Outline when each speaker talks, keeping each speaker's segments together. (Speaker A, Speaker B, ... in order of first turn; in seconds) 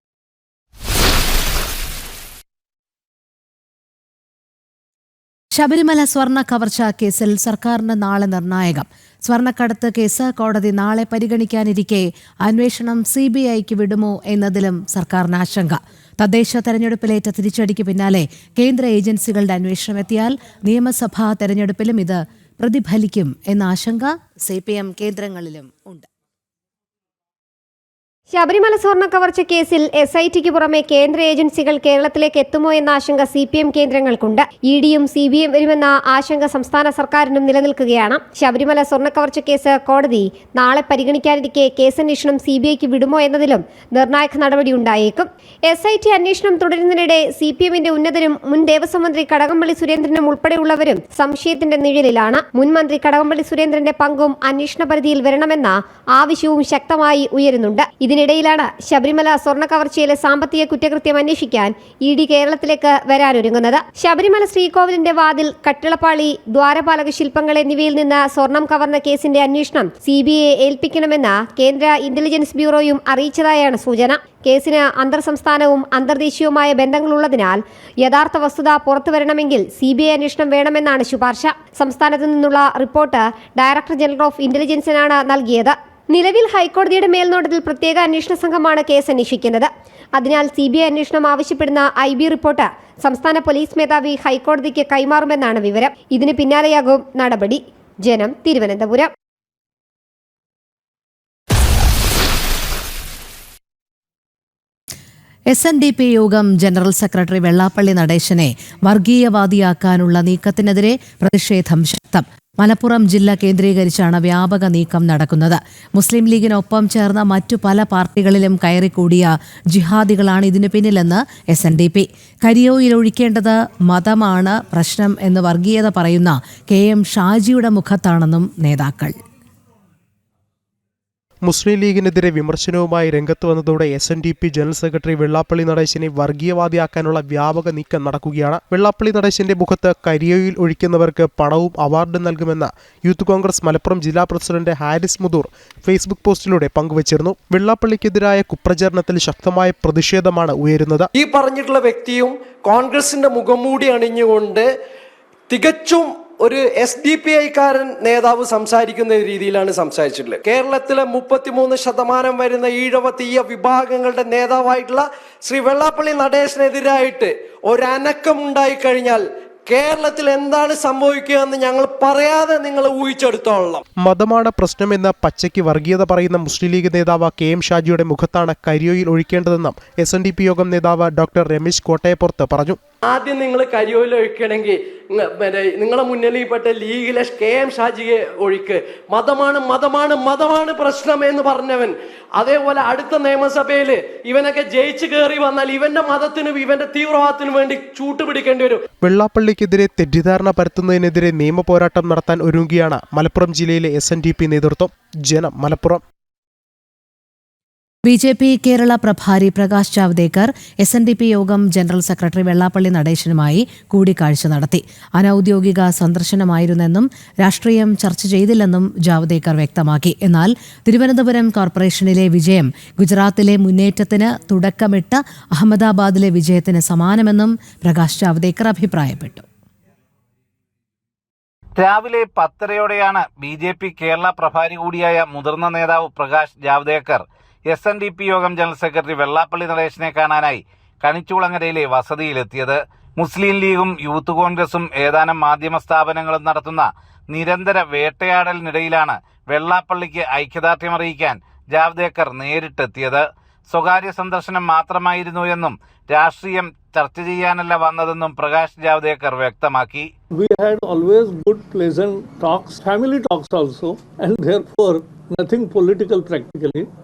Speaker A: 5.5-26.1, 105.5-129.2, 208.0-229.4
Speaker B: 28.3-99.1
Speaker C: 131.4-151.1, 174.0-182.8, 199.0-206.0
Speaker D: 151.1-154.7, 155.5-173.8, 183.1-198.8
Speaker E: 231.8-260.1
Speaker F: 260.3-266.9